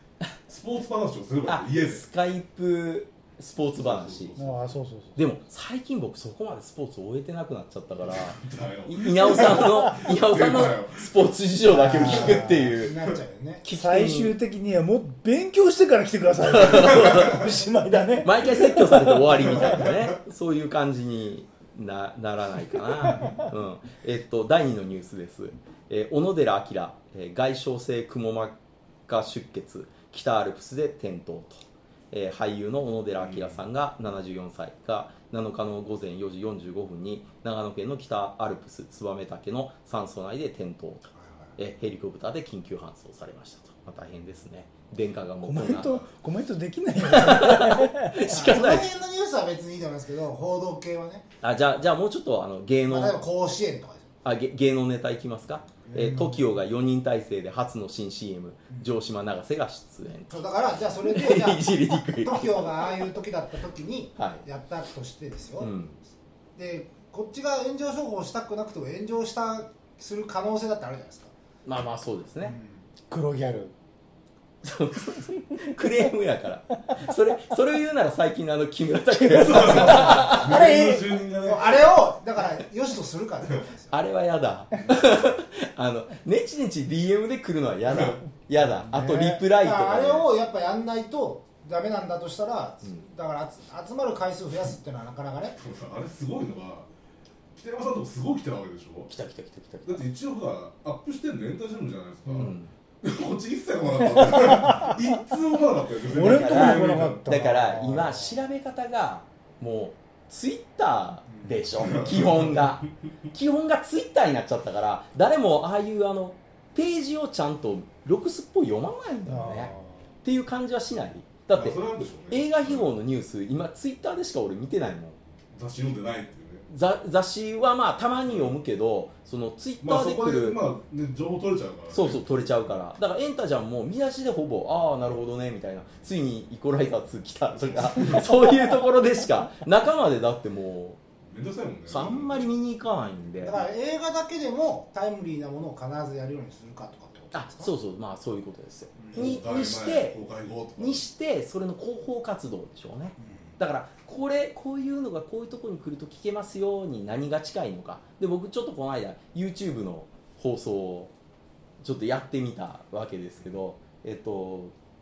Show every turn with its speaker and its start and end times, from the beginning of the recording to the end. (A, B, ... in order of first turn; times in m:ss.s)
0:00.5-0:02.0 A
0:01.5-0:04.4 B
0:03.8-0:04.7 A
0:04.4-0:05.2 C
0:05.2-0:13.0 B
0:08.0-0:11.2 A
0:11.7-0:13.6 D
0:11.9-0:12.7 C
0:13.6-0:14.3 B
0:13.7-0:19.6 C
0:16.5-0:17.4 B
0:18.2-0:46.1 B
0:19.4-0:20.2 A
0:33.2-0:33.6 A
0:41.2-0:41.5 D
0:45.4-0:48.3 C
0:47.0-0:48.9 B
0:48.2-0:51.3 D
0:51.4-0:53.2 B
0:52.9-0:54.1 D
0:54.2-1:00.4 B
0:55.8-0:56.5 D
1:00.3-1:05.8 D
1:01.0-1:02.9 B
1:04.2-1:04.4 B
1:05.6-1:06.0 B
1:06.6-1:11.3 D
1:11.6-1:12.6 B
1:12.4-1:12.8 D
1:13.1-1:13.7 C
1:14.6-1:20.5 B
1:19.2-1:21.9 A
1:19.9-1:21.0 C
1:20.5-1:24.0 D
1:23.9-1:30.3 B
1:28.6-1:29.4 C
1:29.4-1:35.6 D
1:35.6-1:36.9 A
1:37.6-1:39.1 A
1:39.1-1:40.1 B
1:39.9-1:47.3 A
1:42.3-1:42.7 B
1:44.1-1:45.0 C
1:46.1-1:48.4 C
1:46.2-2:05.2 B
1:51.3-1:51.6 D
1:51.8-1:52.8 A
1:59.3-1:59.9 C
2:01.5-2:02.9 A
2:05.6-2:06.6 A
2:06.7-2:10.6 B
2:09.8-2:12.6 A
2:11.9-2:21.0 B
2:17.8-2:18.2 A
2:21.3-2:22.5 A
2:21.9-2:23.6 B
2:23.4-2:27.7 D
2:27.3-2:30.2 B
2:29.0-2:29.3 D
2:29.1-2:31.0 A
2:30.8-2:41.1 B
2:33.2-2:33.5 D
2:41.8-2:44.7 B